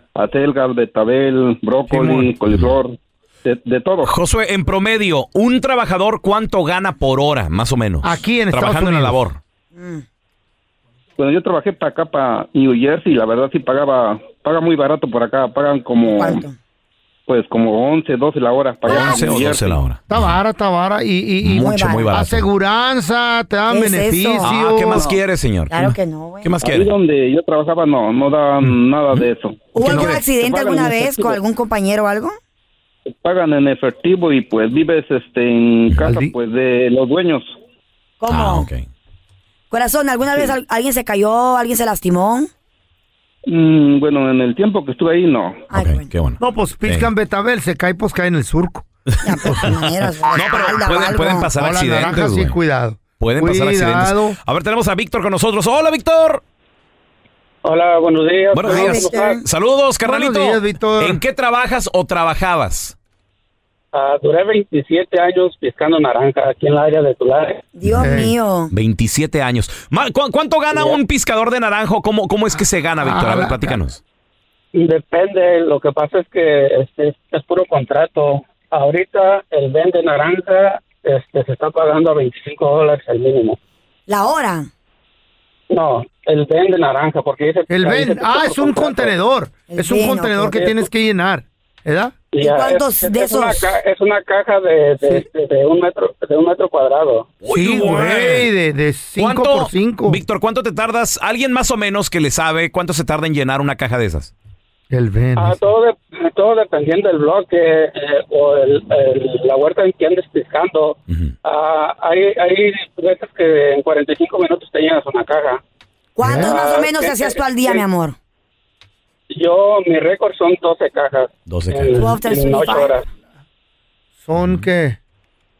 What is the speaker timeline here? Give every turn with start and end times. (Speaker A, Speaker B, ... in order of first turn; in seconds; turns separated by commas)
Speaker A: 0.1-4.1, Speaker B: 1.9-2.3, Speaker C: 4.0-9.4, Speaker B: 8.0-9.2, Speaker D: 9.8-10.0, Speaker A: 11.2-16.4, Speaker D: 16.0-16.5, Speaker A: 17.3-19.8, Speaker C: 18.8-20.3, Speaker B: 18.9-19.2, Speaker B: 20.1-25.1, Speaker C: 21.4-22.5, Speaker D: 21.6-22.1, Speaker D: 23.7-24.5, Speaker C: 24.4-25.8, Speaker D: 25.7-26.6, Speaker C: 26.4-26.9, Speaker A: 26.6-31.4, Speaker D: 29.7-32.4, Speaker B: 29.8-30.1, Speaker C: 29.8-30.2, Speaker A: 33.2-37.5, Speaker B: 36.0-36.4, Speaker D: 38.2-38.7, Speaker C: 38.3-38.9, Speaker D: 39.7-42.5, Speaker A: 43.5-45.7, Speaker D: 45.7-46.1, Speaker C: 45.7-47.1, Speaker B: 46.4-48.9, Speaker C: 49.1-49.7, Speaker D: 49.2-51.5, Speaker B: 49.4-49.7, Speaker C: 50.3-52.6, Speaker B: 51.6-54.4, Speaker C: 53.2-56.4, Speaker E: 57.6-59.4, Speaker C: 58.5-62.9, Speaker D: 58.6-59.4, Speaker B: 60.0-61.2, Speaker E: 63.9-67.7, Speaker D: 67.8-68.7, Speaker C: 67.8-68.2, Speaker B: 68.0-68.3, Speaker C: 68.7-74.0, Speaker B: 73.0-73.8, Speaker E: 74.7-83.6, Speaker D: 84.1-84.7, Speaker E: 85.7-89.1, Speaker B: 87.7-92.2, Speaker D: 89.7-90.6, Speaker E: 90.5-90.8, Speaker E: 92.3-97.3, Speaker D: 92.4-93.7, Speaker C: 97.4-98.5, Speaker B: 97.5-100.2, Speaker C: 99.2-104.3, Speaker B: 104.9-105.6, Speaker E: 105.3-115.6, Speaker D: 116.2-118.1, Speaker B: 116.2-116.5, Speaker E: 116.4-117.8, Speaker E: 119.3-123.0, Speaker C: 121.5-122.1, Speaker D: 122.0-123.0, Speaker B: 124.2-125.0, Speaker C: 124.3-124.7